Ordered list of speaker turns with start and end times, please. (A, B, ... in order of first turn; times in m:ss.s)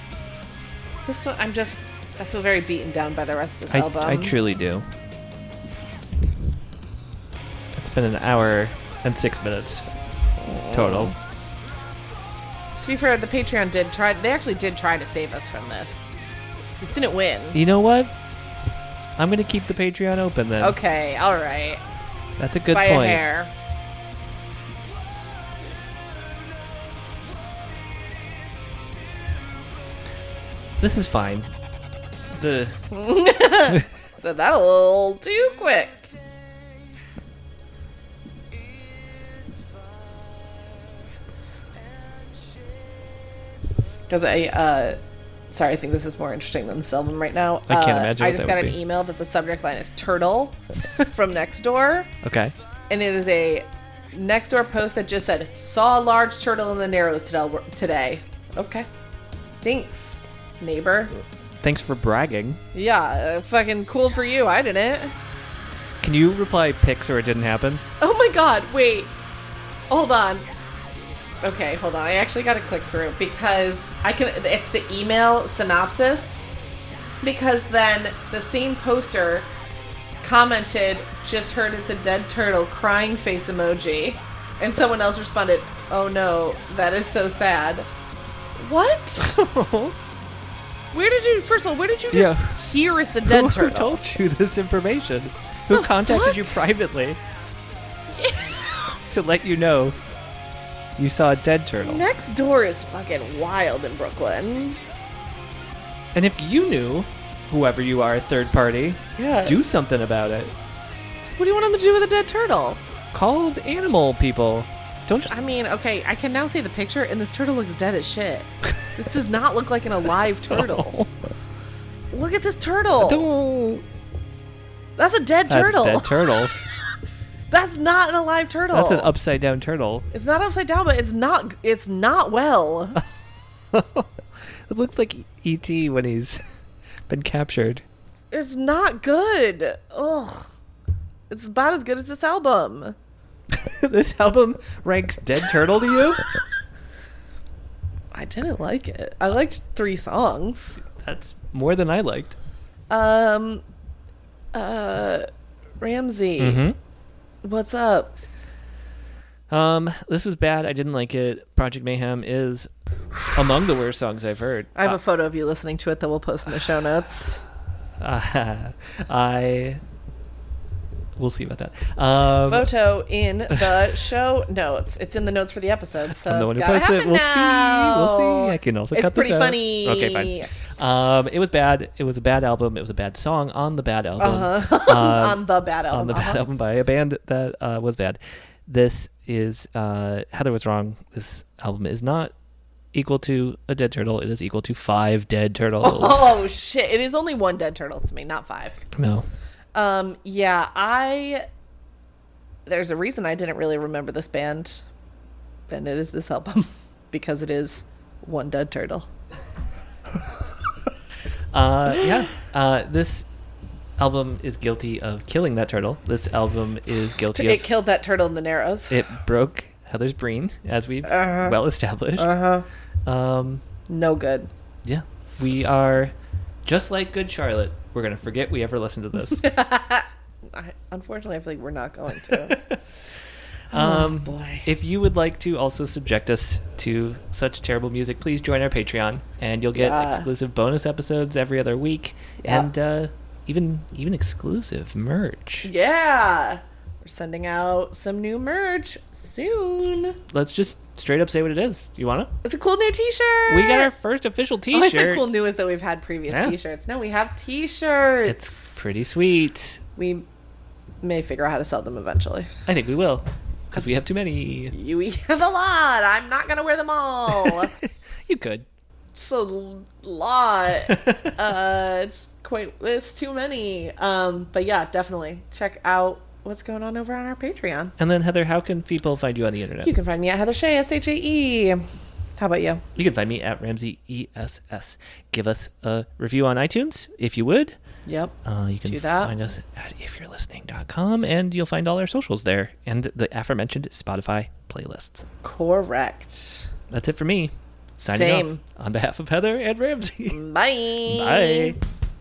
0:01.0-0:04.3 A
0:03.7-0:04.8 B
0:07.7-0:09.8 B
0:10.4-0:11.1 A
0:10.7-0:11.1 B
0:12.8-0:16.1 A
0:16.8-0:17.6 A
0:17.5-0:18.1 B
0:19.2-0:20.8 B
0:20.6-0:21.8 A
0:22.4-0:23.2 B
0:22.7-0:23.5 A
0:30.8-0:31.5 B
0:32.4-0:32.8 B
0:32.9-0:36.1 A
0:44.1-0:45.0 A
0:45.5-0:52.1 A
0:47.7-0:48.8 B
0:52.2-0:52.5 B
0:52.9-0:58.9 A
0:59.6-1:01.2 A
1:01.6-1:02.6 B
1:02.7-1:05.1 A
1:06.0-1:07.8 B
1:08.0-1:09.1 A
1:09.9-1:10.5 A
1:11.4-1:16.4 A
1:17.2-1:19.5 A
1:20.2-1:27.9 A
1:28.6-1:29.4 A
1:29.2-1:30.0 B
1:30.9-1:34.0 A
1:32.1-1:32.6 B
1:33.2-1:37.2 B
1:35.7-1:36.6 A
1:38.1-1:38.9 A
1:39.1-1:40.0 B
1:41.0-1:42.0 B
1:41.8-1:44.8 A
1:46.1-1:50.5 B
1:49.2-1:49.6 A
1:51.4-1:52.8 A
1:53.1-1:55.4 B
1:55.2-2:01.0 A
2:00.5-2:01.1 B
2:02.1-2:03.2 A
2:03.0-2:03.8 B
2:05.0-2:06.3 A
2:05.5-2:06.5 B
2:07.5-2:09.1 A
2:08.7-2:10.0 B
2:10.1-2:13.0 A
2:13.7-2:14.1 B
2:14.7-2:16.4 B
2:17.1-2:17.8 B
2:18.3-2:20.5 A
2:21.3-2:23.0 A
2:23.5-2:26.2 B
2:28.1-2:30.8 A
2:30.8-2:32.4 B
2:32.9-2:33.6 A
2:34.5-2:35.3 A
2:35.8-2:36.6 A
2:36.4-2:36.8 B
2:37.4-2:38.1 A
2:39.5-2:42.7 B
2:43.3-2:45.0 B
2:44.8-2:47.4 A
2:48.0-2:49.8 B
2:51.2-2:52.7 B
2:52.5-3:00.5 A
2:56.1-3:12.3 B
3:04.2-3:06.4 A
3:12.9-3:16.4 B
3:15.8-3:18.8 A
3:18.9-3:19.3 B
3:19.7-3:21.4 A
3:22.6-3:24.8 A
3:25.7-3:29.1 A
3:31.5-3:33.3 B
3:34.0-3:37.7 B
3:37.3-3:39.0 A
3:38.9-3:42.3 B
3:41.0-3:41.6 A
3:42.2-3:42.7 A
3:43.0-3:43.6 B
3:43.9-3:44.5 A
3:44.8-3:46.1 B
3:46.6-3:49.4 B
3:49.4-3:52.6 A
3:52.2-3:52.8 B
3:53.7-3:54.7 A
3:53.7-4:05.7 B
3:59.7-4:00.3 A
4:02.4-4:02.7 A
4:05.6-4:10.2 A
4:10.3-4:12.3 B
4:12.4-4:13.9 A
4:13.5-4:15.2 B
4:14.7-4:18.8 A
4:16.3-4:16.6 B
4:18.3-4:19.8 B
4:20.0-4:20.2 A
4:21.0-4:22.5 A
4:22.7-4:24.7 B
4:24.7-4:27.7 A
4:27.3-4:28.6 B
4:29.1-4:37.9 A
4:30.9-4:31.3 B
4:38.0-4:39.9 B
4:39.8-4:41.8 A
4:42.4-4:42.8 A
4:42.9-4:47.8 B
4:48.0-4:48.3 A
4:48.4-4:55.2 B
4:48.9-4:49.3 A
4:55.4-4:56.7 A
4:56.9-5:00.4 B
4:58.1-4:58.6 A
5:00.3-5:01.8 A
5:01.0-5:01.8 B